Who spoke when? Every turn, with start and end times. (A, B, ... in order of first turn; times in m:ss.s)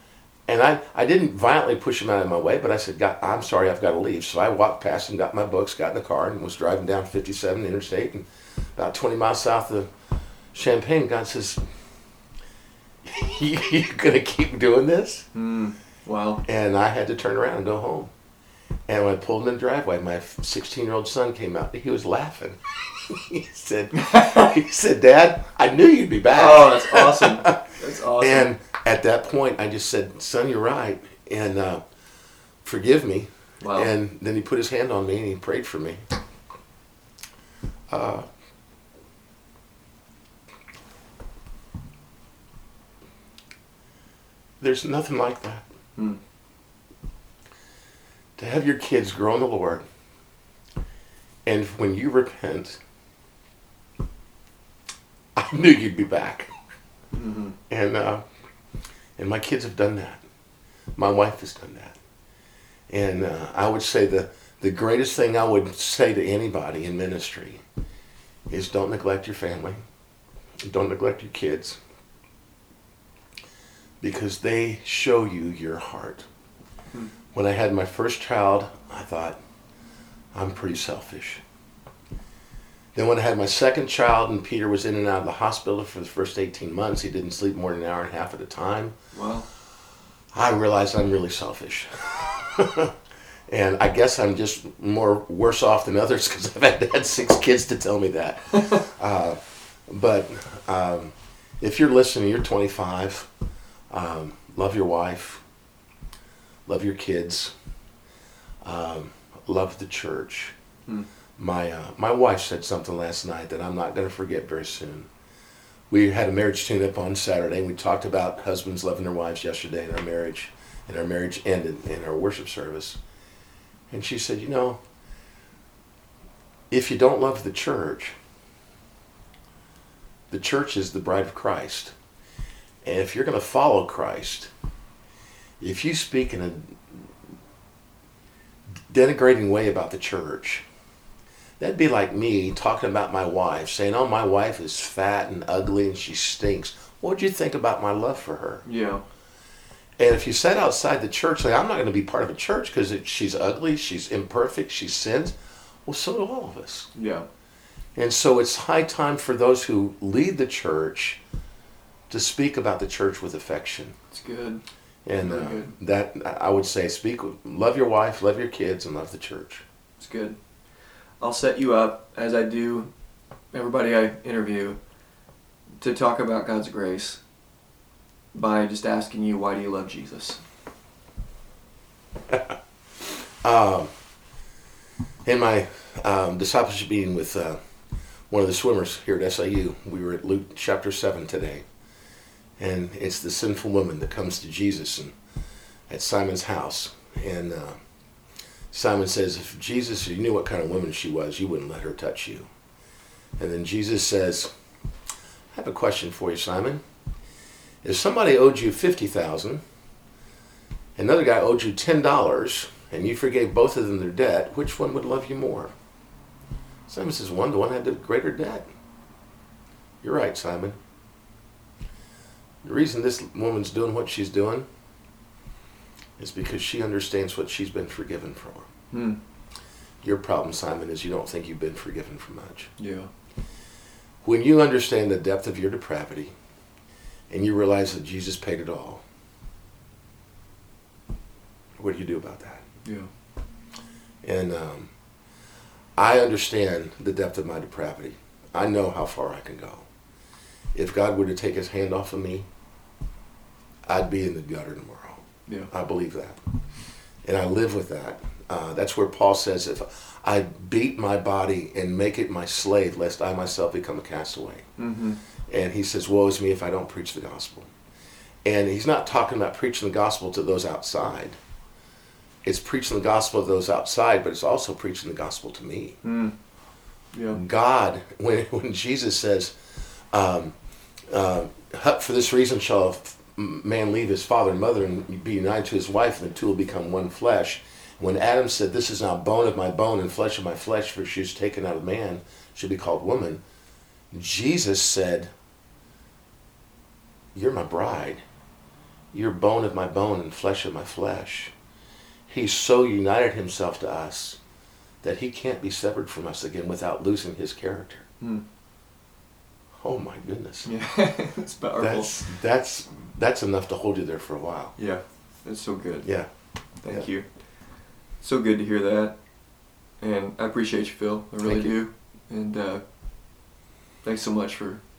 0:00.5-0:09.9 A
0:10.5-0:11.6 A
0:13.0-0:15.3 A
0:15.4-0:16.4 B
0:16.4-0:18.1 A
0:18.9-0:27.6 A
0:23.9-0:24.5 B
0:26.3-0:28.5 B
0:28.2-0:31.8 A
0:32.6-0:36.0 A
0:33.6-0:33.9 B
0:37.9-0:38.3 A
0:44.6-0:45.6 A
0:48.4-0:49.8 A
0:51.5-0:52.8 A
0:55.4-0:56.5 A
0:57.1-0:57.6 B
0:57.7-0:58.2 A
0:59.2-1:00.2 A
1:01.0-1:02.0 A
1:02.9-1:07.6 A
1:08.5-1:09.8 A
1:10.6-1:11.8 A
1:14.0-1:16.3 A
1:17.3-1:19.4 A
1:20.3-1:21.4 A
1:23.0-1:29.0 A
1:29.1-1:29.5 B
1:30.3-1:33.0 A
1:33.5-1:43.3 A
1:38.5-1:38.9 B
1:43.9-1:45.4 A
1:46.7-1:47.5 A
1:48.6-1:50.5 A
1:51.4-1:55.1 A
1:55.9-2:03.0 A
2:03.9-2:04.8 A
2:06.7-2:08.2 A
2:10.3-2:11.9 A
2:12.8-2:14.5 A
2:15.6-2:17.1 A
2:18.9-2:20.6 A
2:21.6-2:28.6 A
2:28.6-2:29.0 B
2:30.0-2:35.3 A
2:35.9-2:36.9 A
2:37.0-2:37.3 B
2:38.0-2:41.2 A
2:42.1-2:44.0 A
2:44.1-2:44.6 B
2:45.0-2:49.6 A
2:45.2-2:45.7 B
2:50.0-2:50.4 B
2:51.2-2:52.9 B
2:53.5-2:54.8 B
2:55.8-2:57.2 B
2:58.3-3:00.4 B
3:03.1-3:03.9 A
3:05.2-3:07.6 A
3:08.3-3:11.6 A
3:12.6-3:15.1 A
3:15.9-3:17.8 A
3:18.7-3:22.5 A
3:23.4-3:24.5 A
3:25.5-3:26.8 A
3:27.8-3:29.6 A
3:31.0-3:35.7 A
3:36.9-3:38.7 A
3:40.0-3:40.8 A
3:42.6-3:44.7 A
3:46.2-3:48.7 A
3:48.9-3:49.2 B
3:50.0-3:52.7 A
3:52.8-3:53.1 B
3:54.2-3:56.3 A
3:57.3-3:59.0 A
4:01.8-4:02.6 A
4:04.2-4:04.9 A
4:06.0-4:09.9 A
4:10.8-4:12.5 A
4:13.9-4:16.4 A
4:17.2-4:24.6 A
4:24.8-4:25.2 B
4:25.5-4:27.7 A
4:28.4-4:31.4 A
4:32.4-4:36.0 A
4:36.0-4:36.3 B
4:37.1-4:37.4 B
4:37.3-4:39.5 A
4:40.1-4:40.6 A
4:41.1-4:53.4 A
4:54.1-4:55.3 A
4:57.4-4:58.2 A
4:59.1-5:01.5 A
5:02.3-5:04.4 A
5:05.0-5:08.0 A
5:09.8-5:10.7 A
5:10.6-5:12.1 B
5:11.8-5:14.8 A
5:14.8-5:16.1 B
5:16.8-5:17.3 B
5:18.2-5:19.2 B
5:20.0-5:22.8 B
5:21.4-5:21.7 A
5:24.0-5:24.8 B